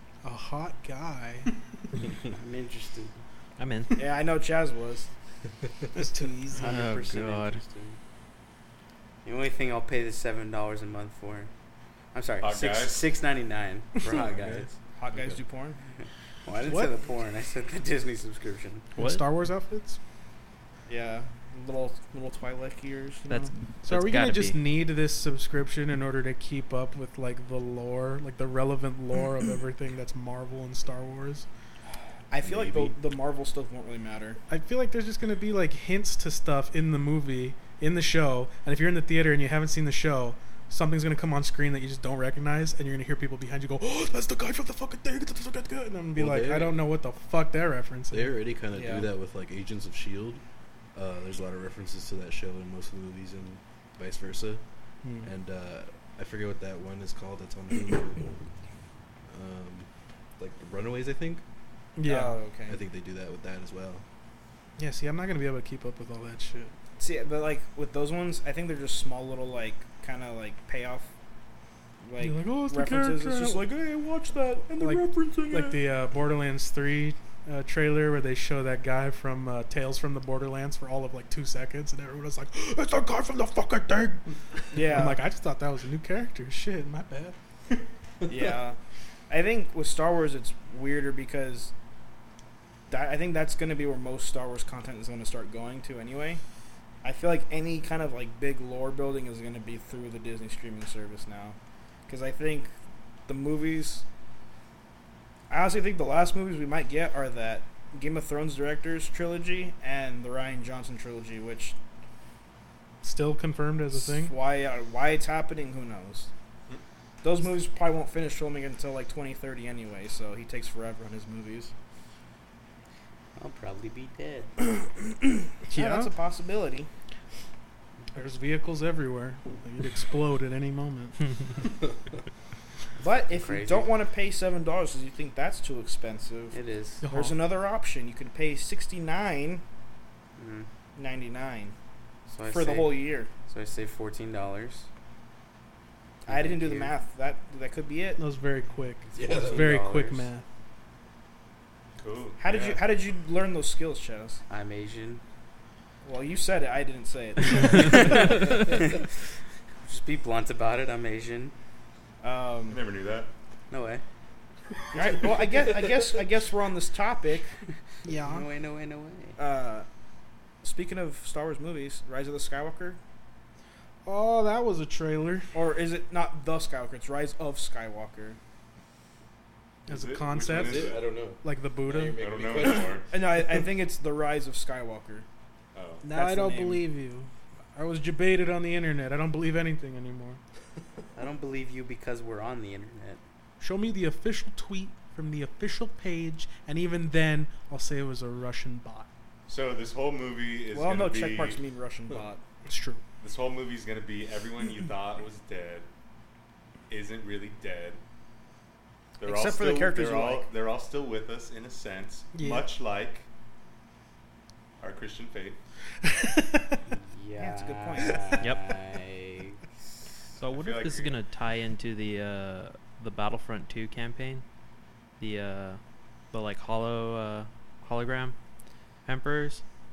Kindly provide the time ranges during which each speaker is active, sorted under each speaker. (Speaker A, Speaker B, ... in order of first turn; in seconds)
Speaker A: 0.2-1.5, 6.0-6.7, 14.0-14.6, 16.6-16.9, 19.0-20.0, 23.8-31.5, 34.5-48.4, 55.0-55.3, 62.0-62.4, 64.8-66.7, 72.2-73.7, 74.8-87.4, 113.0-114.3, 125.7-126.1, 128.2-131.3, 137.0-137.4, 148.2-150.4, 168.0-168.5, 174.1-175.5, 179.9-182.2, 186.0-190.4, 193.6-199.1, 202.7-203.0, 212.3-212.7, 216.0-216.8
Speaker B: 2.2-3.2, 6.6-8.0, 9.2-11.5, 12.1-14.8, 15.9-18.9, 123.4-124.5, 133.2-133.9, 136.5-137.0, 140.4-140.7, 142.3-144.9, 146.2-146.9, 149.2-150.3, 154.5-155.2, 157.8-159.1, 159.8-161.5, 163.7-164.0, 168.2-169.4, 191.2-193.2, 216.9-220.3
Speaker C: 3.6-4.0, 6.6-7.6, 18.9-19.2, 23.3-24.6, 218.4-218.7, 220.4-224.4, 225.2-225.8, 226.3-228.3, 229.1-229.6
Speaker D: 4.0-5.1, 14.9-15.8, 20.9-23.5, 32.3-34.4, 48.7-49.1, 62.0-62.8, 67.0-71.1, 72.0-75.9, 84.7-85.2, 88.3-88.8, 89.3-91.7, 92.9-96.4, 97.0-101.6, 102.1-102.7, 103.3-104.0, 105.5-111.8, 113.9-116.3, 117.2-121.7, 124.6-126.9, 133.0-139.6, 141.0-141.8, 142.5-143.3, 146.3-148.2, 152.4-154.4, 156.0-158.6, 162.2-162.8, 164.9-167.5, 169.4-169.9, 170.6-173.0, 175.5-178.4, 183.1-185.3, 186.1-186.9, 200.7-202.4, 209.2-210.5, 217.4-218.3
Speaker E: 12.4-13.0, 152.0-152.8, 162.7-163.3, 179.9-181.1, 182.2-183.1, 185.7-186.0, 199.5-201.6, 203.2-205.9, 206.9-208.0, 209.2-213.3, 214.8-215.6, 220.5-221.2
Speaker F: 14.1-14.7, 32.4-33.0, 46.1-46.8, 48.1-50.4, 50.9-54.6, 55.2-58.4, 59.3-61.4, 62.7-64.0, 88.2-88.6, 149.1-149.8, 180.4-183.1